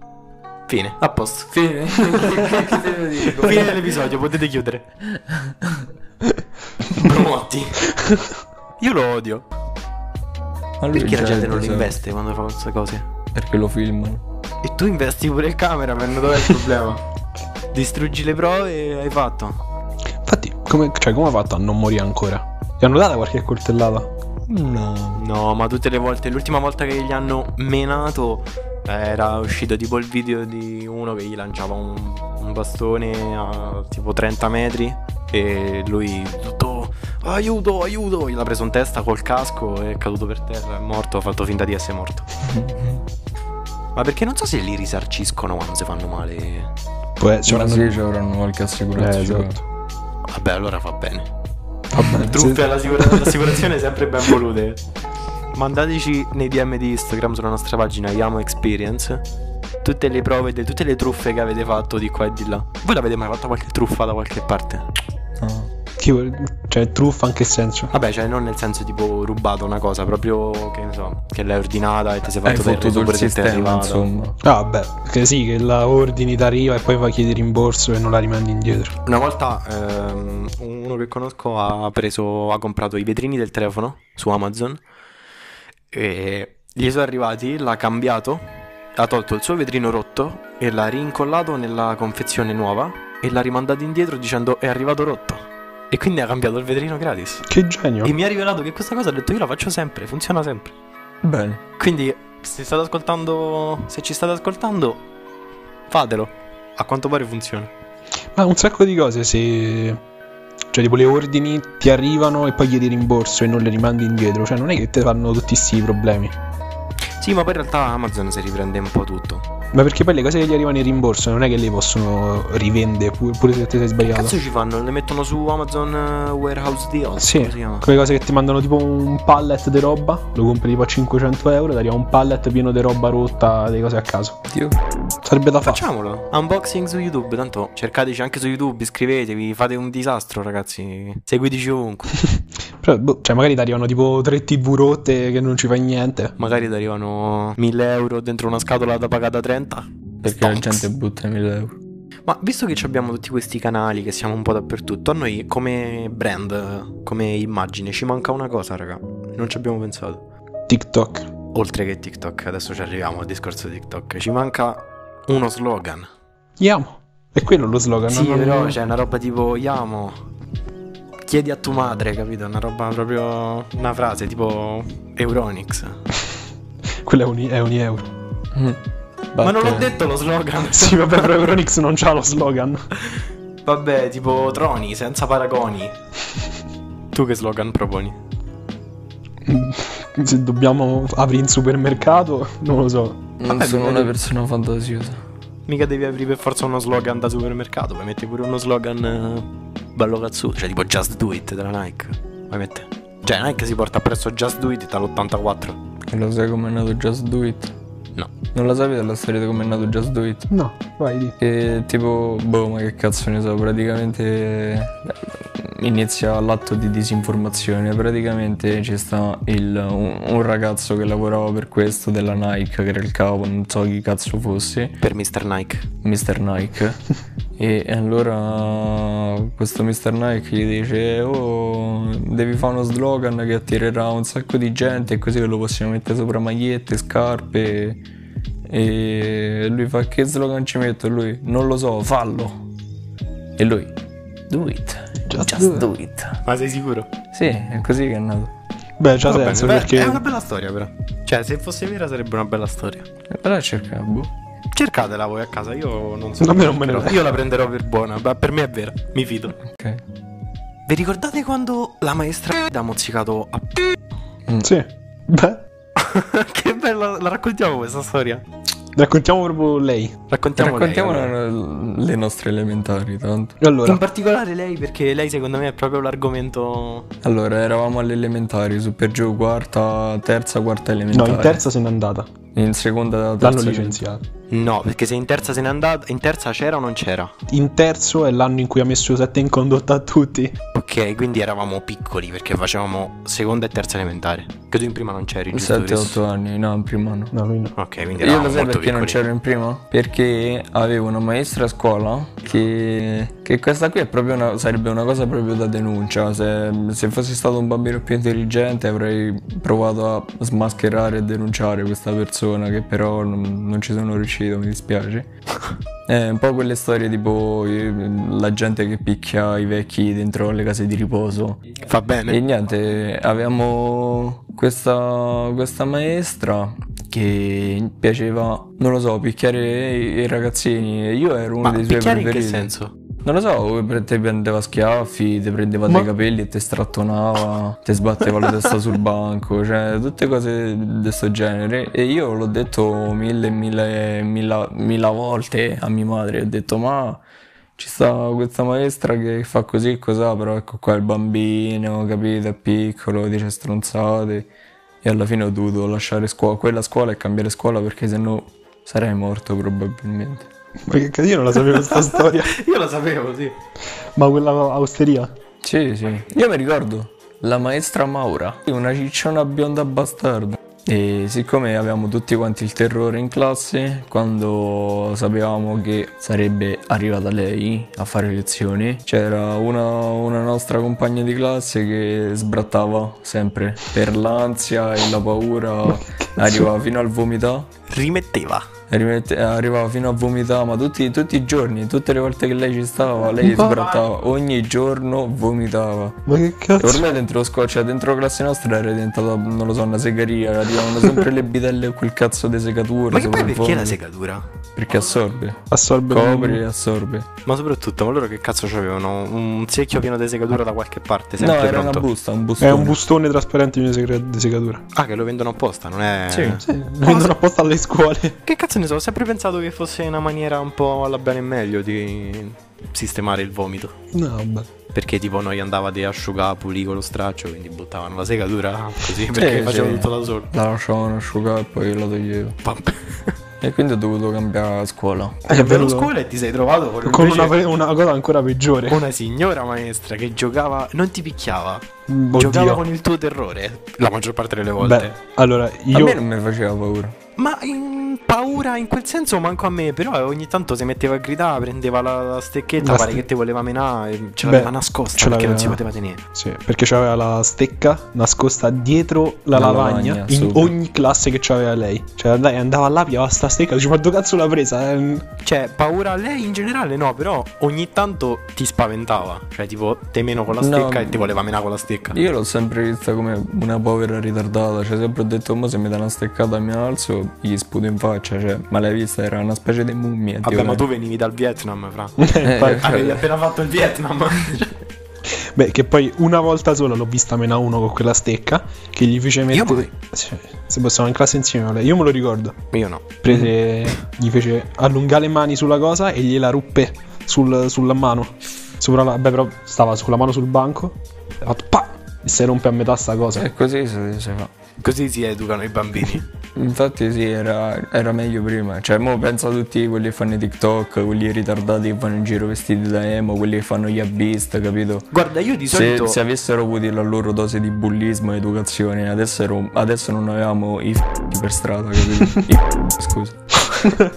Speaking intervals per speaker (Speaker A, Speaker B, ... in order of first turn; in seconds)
Speaker A: 0.7-1.5, 3.3-4.8, 6.9-7.8, 8.8-9.4, 10.9-13.1, 14.6-17.0, 17.7-19.6, 25.1-42.3, 43.9-46.7, 50.3-51.3, 52.0-54.8, 55.5-59.2, 59.8-64.8, 67.9-74.1, 79.0-84.8, 85.9-88.4, 88.9-97.4, 98.0-100.7, 101.8-105.0, 105.9-107.7, 117.2-119.5, 124.0-127.9, 135.6-142.1, 146.4-150.9, 152.3-160.2, 161.5-166.1, 168.0-170.2, 171.2-175.9, 179.4-181.5, 183.7-185.9, 187.1-188.2, 193.5-194.1, 195.7-205.8, 225.0-225.8, 246.4-247.1, 249.3-253.1, 254.7-259.6, 260.9-263.9, 266.0-268.4, 270.3-271.3, 273.8-277.1, 284.5-287.3, 290.8-296.2, 297.8-299.2, 321.8-322.4, 331.6-332.9, 361.7-363.6, 387.9-388.7, 393.6-394.1, 403.1-404.4, 407.5-412.1, 414.9-417.3, 418.4-423.9, 424.9-430.5, 432.6-433.3, 435.5-437.6, 438.9-441.9, 442.4-445.1, 447.4-456.2, 465.4-472.2, 480.4-484.7, 489.5-489.9, 492.7-493.1, 504.8-506.2, 515.1-516.2
Speaker B: 1.5-4.0, 5.1-5.9, 10.8-11.9, 13.3-14.2, 24.5-25.2, 42.5-43.0, 47.5-49.6, 65.4-65.7, 72.4-74.3, 101.2-101.6, 134.5-134.8, 150.2-151.8, 178.5-178.8, 179.3-180.0, 193.4-195.2, 206.1-207.7, 208.5-210.5, 211.4-225.0, 226.0-227.0, 227.6-238.0, 238.7-242.5, 243.6-243.9, 244.5-246.4, 247.3-248.5, 253.3-254.3, 259.7-260.0, 270.6-273.6, 277.2-281.6, 282.6-284.0, 295.5-297.3, 298.2-315.3, 316.1-321.6, 322.3-332.7, 333.2-347.2, 347.8-354.5, 355.0-360.5, 365.6-387.7, 388.9-396.2, 396.8-404.0, 404.8-407.3, 411.4-413.0, 416.3-416.6, 429.3-432.6, 433.6-435.5, 445.9-447.2, 459.5-460.8, 470.6-471.4, 472.1-480.8, 482.4-483.3, 503.3-504.5, 506.6-515.1, 515.7-523.4
Speaker C: 20.2-24.1, 47.2-48.0, 49.0-49.6, 51.9-53.4, 66.0-67.9, 74.4-78.9, 97.5-98.1, 108.3-110.0, 110.7-116.3, 119.7-124.3, 127.2-134.3, 135.2-135.8, 142.8-146.3, 160.7-161.3, 166.6-168.8, 177.0-178.1, 180.7-182.8, 189.4-193.3, 210.5-211.3, 245.3-245.9, 249.0-250.2, 256.4-257.2, 264.6-265.6, 268.9-270.1, 273.6-274.0, 281.1-282.3, 283.4-284.2, 287.5-290.5, 297.3-297.7, 360.9-362.5, 364.1-365.3, 385.9-386.7, 393.4-393.8, 396.3-397.1, 400.9-401.2, 405.7-406.6, 412.6-414.8, 416.6-418.4, 424.1-424.7, 435.5-436.1, 437.1-439.0, 442.1-442.8, 444.8-446.2, 452.8-453.2, 454.4-455.8, 456.3-465.2, 482.2-482.9, 485.6-492.6, 493.2-503.5